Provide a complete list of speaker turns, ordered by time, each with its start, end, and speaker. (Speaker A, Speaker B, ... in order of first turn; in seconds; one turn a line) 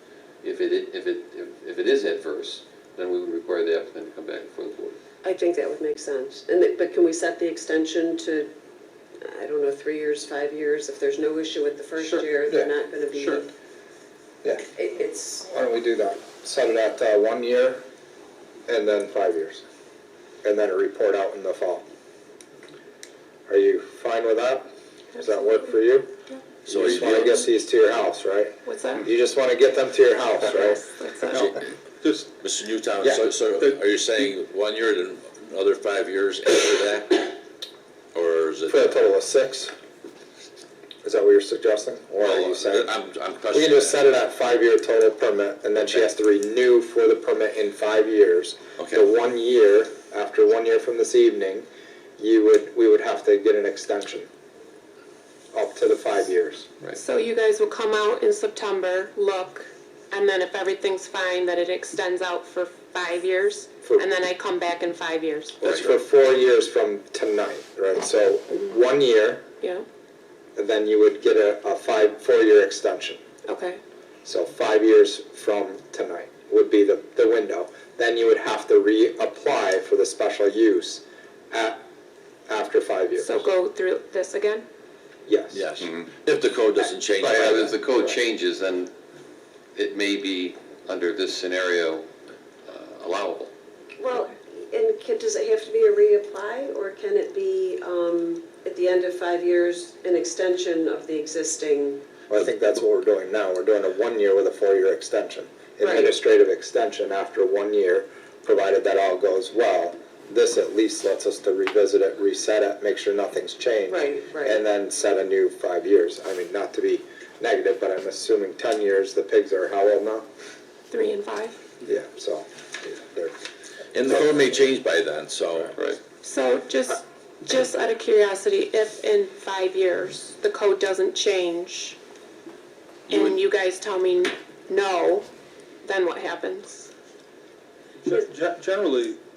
Speaker A: 0.4-5.0
Speaker B: 5.2-8.5
Speaker B: 9.2-13.5
Speaker C: 12.5-13.5
Speaker B: 14.7-15.5
Speaker C: 15.4-17.8
Speaker C: 18.7-19.6
Speaker C: 20.4-21.8
Speaker C: 23.5-26.1
Speaker D: 25.1-25.7
Speaker E: 26.6-27.5
Speaker C: 26.7-30.8
Speaker D: 28.6-29.1
Speaker D: 30.4-31.4
Speaker F: 31.3-32.3
Speaker E: 31.3-31.6
Speaker E: 32.4-37.4
Speaker E: 38.1-38.8
Speaker C: 38.7-39.7
Speaker C: 41.0-42.9
Speaker E: 42.2-44.0
Speaker C: 43.5-51.7
Speaker E: 48.8-49.0
Speaker C: 52.2-54.3
Speaker C: 55.5-56.7
Speaker D: 56.9-65.6
Speaker C: 65.6-69.5
Speaker C: 70.6-73.2
Speaker D: 73.5-73.8
Speaker C: 74.2-81.8
Speaker C: 82.5-83.3
Speaker D: 83.2-84.7
Speaker C: 85.3-85.6
Speaker E: 85.5-87.8
Speaker A: 87.2-88.9
Speaker A: 89.8-92.1
Speaker A: 92.7-93.5
Speaker B: 94.0-102.1
Speaker C: 102.3-120.3
Speaker B: 105.8-106.1
Speaker B: 113.9-114.7
Speaker D: 120.9-121.6
Speaker C: 121.8-123.3
Speaker E: 123.9-125.8
Speaker C: 124.0-124.4
Speaker A: 125.8-126.0
Speaker D: 126.2-132.0
Speaker E: 133.1-133.4
Speaker D: 133.1-135.3
Speaker D: 135.8-136.9
Speaker F: 138.0-139.2